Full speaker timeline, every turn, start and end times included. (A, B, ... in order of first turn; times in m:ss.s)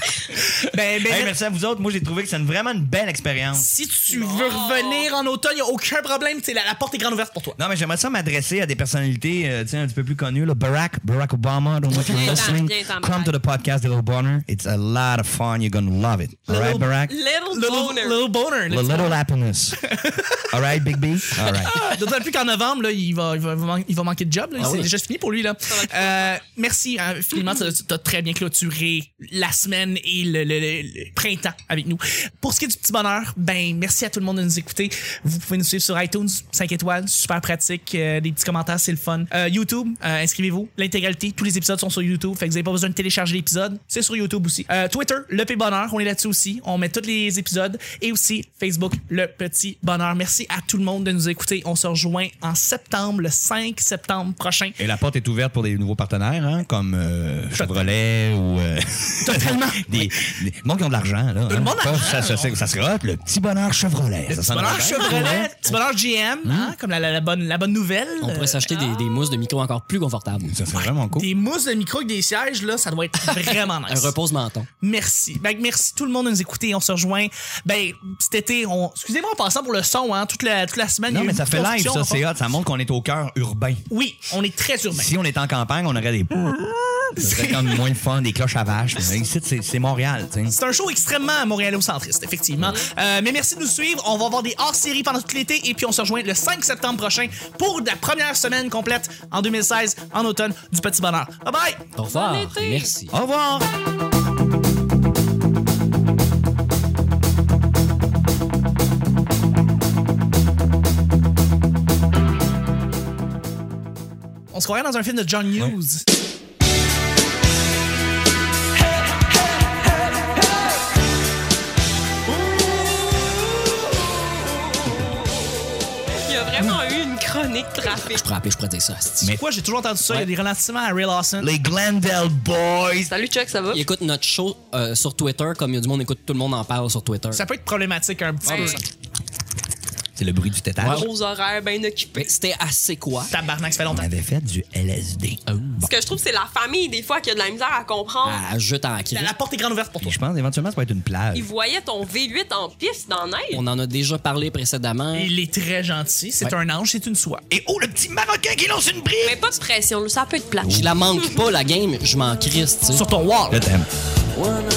0:00.5-0:01.3 A
0:01.0-0:03.7 B
0:03.5-0:07.6 A
0:04.1-0:05.1 C
0:07.6-0:17.1 B
0:11.9-0:13.3 C
0:12.1-0:12.5 D
0:16.5-0:16.9 A
0:17.1-0:18.3 C
0:17.5-0:19.1 A
0:18.7-0:19.8 B
0:19.8-0:20.5 A
0:20.5-0:21.8 B
0:21.4-0:54.8 A
0:24.6-0:24.9 D
0:25.7-0:26.4 C
0:54.8-1:05.8 B
0:57.6-0:57.8 A
0:59.2-1:00.1 A
1:01.5-1:02.6 A
1:04.3-1:08.6 A
1:06.4-1:06.7 B
1:08.2-1:10.6 D
1:08.7-1:09.4 C
1:10.5-1:11.3 B
1:10.7-1:14.1 A
1:13.4-1:14.7 D
1:14.8-1:22.2 A
1:21.1-1:23.8 B
1:23.9-1:25.1 A
1:24.9-1:30.5 B
1:27.2-1:27.8 A
1:30.5-1:41.8 A
1:42.0-1:43.2 D
1:42.1-1:42.9 C
1:43.1-1:43.7 B
1:54.5-1:56.1 A
2:06.2-2:08.2 C
2:08.1-2:09.3 D
2:09.4-2:11.5 A
2:11.4-2:13.1 B
2:13.1-2:13.8 C
2:13.7-2:17.4 D
2:17.3-2:18.8 A
2:18.4-2:18.8 C
2:18.5-2:18.8 D
2:20.2-2:21.1 B
2:20.8-2:21.1 D
2:20.8-2:22.3 C
2:22.2-2:23.3 D
2:23.3-2:24.1 A
2:23.9-2:25.4 B
2:25.5-2:25.9 D
2:25.8-2:28.4 C
2:28.2-2:29.3 D
2:29.1-2:30.2 A
2:30.0-2:31.5 B
2:31.3-2:33.6 C
2:33.5-2:35.3 D
2:35.1-2:37.4 A
2:37.5-2:39.4 B
2:39.2-2:41.3 C
2:40.6-2:40.9 B
2:40.6-2:43.0 D
2:42.9-2:43.6 A
2:43.5-2:43.9 B